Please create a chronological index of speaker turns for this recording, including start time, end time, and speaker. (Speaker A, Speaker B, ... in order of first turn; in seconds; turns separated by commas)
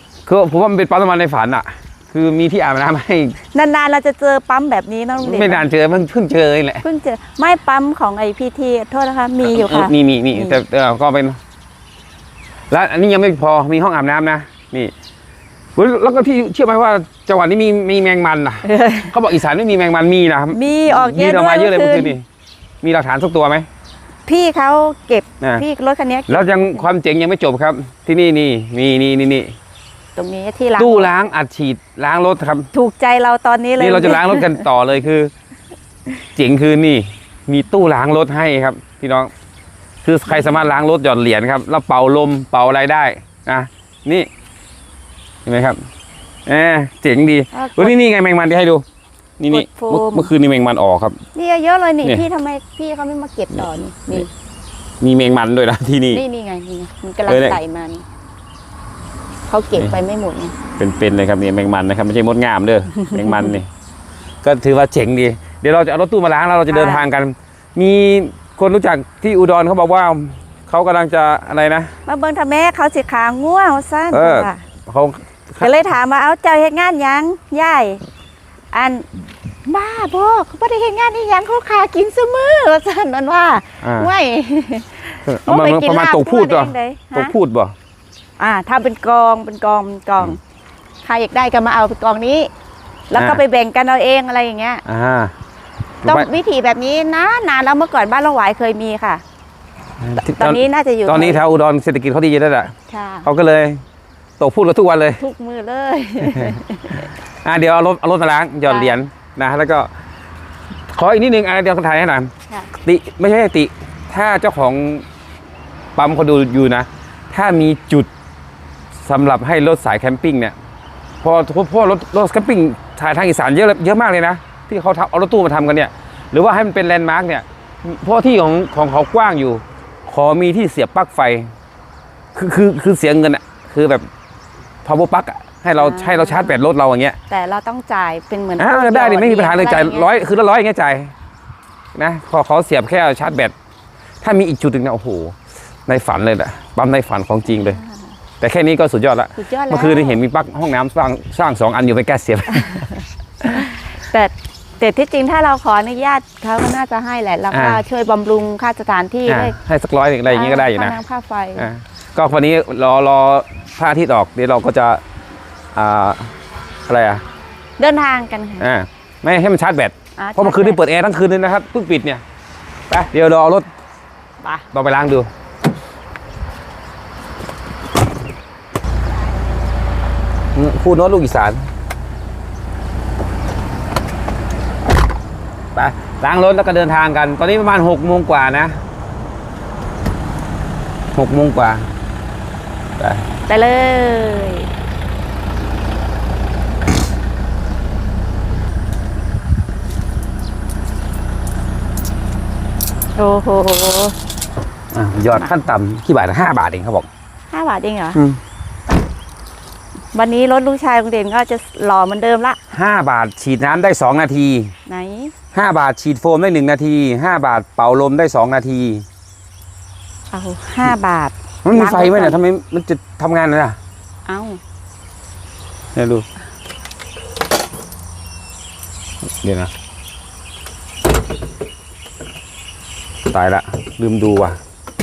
Speaker A: 0.3-3.4, Speaker B: 3.5-5.7, Speaker A: 5.2-6.8, Speaker B: 6.8-10.6, Speaker A: 9.4-11.4, Speaker A: 12.7-14.9, Speaker A: 15.8-22.2, Speaker B: 18.6-19.1, Speaker B: 20.5-22.2, Speaker A: 22.8-23.7, Speaker B: 24.3-26.8, Speaker A: 26.3-29.6, Speaker B: 30.2-31.1, Speaker A: 30.8-32.7, Speaker B: 32.7-34.7, Speaker A: 33.8-35.3, Speaker A: 36.4-39.3, Speaker A: 40.0-44.3, Speaker A: 45.5-45.8, Speaker A: 46.5-48.8, Speaker B: 47.5-48.0, Speaker A: 49.4-51.2, Speaker B: 49.5-50.3, Speaker B: 51.4-54.3, Speaker A: 55.0-56.2, Speaker B: 56.1-58.0, Speaker A: 57.3-57.6, Speaker B: 59.5-60.5, Speaker A: 60.8-63.7, Speaker B: 63.1-63.5, Speaker A: 64.4-71.9, Speaker B: 66.7-67.1, Speaker B: 72.1-74.6, Speaker A: 74.1-75.7, Speaker B: 75.6-78.0, Speaker B: 78.7-79.1, Speaker B: 79.7-87.3, Speaker A: 83.8-84.1, Speaker A: 85.3-87.8, Speaker B: 88.4-90.4, Speaker B: 91.0-92.5, Speaker B: 93.1-94.8, Speaker A: 93.2-93.4, Speaker A: 94.9-95.3, Speaker A: 96.0-96.3, Speaker B: 96.0-99.2, Speaker A: 100.0-102.7, Speaker B: 100.2-101.4, Speaker B: 102.9-103.3, Speaker A: 103.2-103.8, Speaker A: 104.4-105.2, Speaker B: 105.2-107.1, Speaker A: 106.3-106.6, Speaker A: 107.4-109.9, Speaker B: 108.7-109.0, Speaker A: 110.9-115.0, Speaker A: 116.0-118.1, Speaker A: 119.0-120.5, Speaker A: 121.2-131.5, Speaker A: 132.3-134.1, Speaker A: 134.8-137.2, Speaker B: 135.8-136.6, Speaker B: 137.3-140.1, Speaker A: 138.6-141.1, Speaker A: 141.9-143.5, Speaker A: 144.2-145.4, Speaker A: 145.9-147.8, Speaker B: 147.5-148.1, Speaker A: 148.4-152.9, Speaker B: 149.4-150.2, Speaker B: 153.5-159.6, Speaker A: 157.5-157.8, Speaker A: 159.3-161.0, Speaker B: 160.3-161.7, Speaker A: 161.6-165.0, Speaker A: 165.8-166.3, Speaker A: 166.9-167.2, Speaker B: 167.8-168.7, Speaker A: 168.6-172.2, Speaker B: 170.2-170.8, Speaker A: 172.9-173.7, Speaker B: 174.4-174.7, Speaker A: 174.7-175.3, Speaker A: 180.6-181.7, Speaker A: 185.8-188.8, Speaker A: 191.2-191.9, Speaker B: 193.5-194.7, Speaker B: 203.2-204.2, Speaker A: 204.9-207.1, Speaker B: 207.5-208.2, Speaker B: 210.1-212.6, Speaker A: 212.7-214.7, Speaker B: 214.9-215.3, Speaker A: 215.5-219.1, Speaker B: 220.3-222.4, Speaker A: 221.6-223.8, Speaker B: 224.3-224.6, Speaker A: 225.9-226.3, Speaker A: 229.4-229.7, Speaker A: 233.3-234.6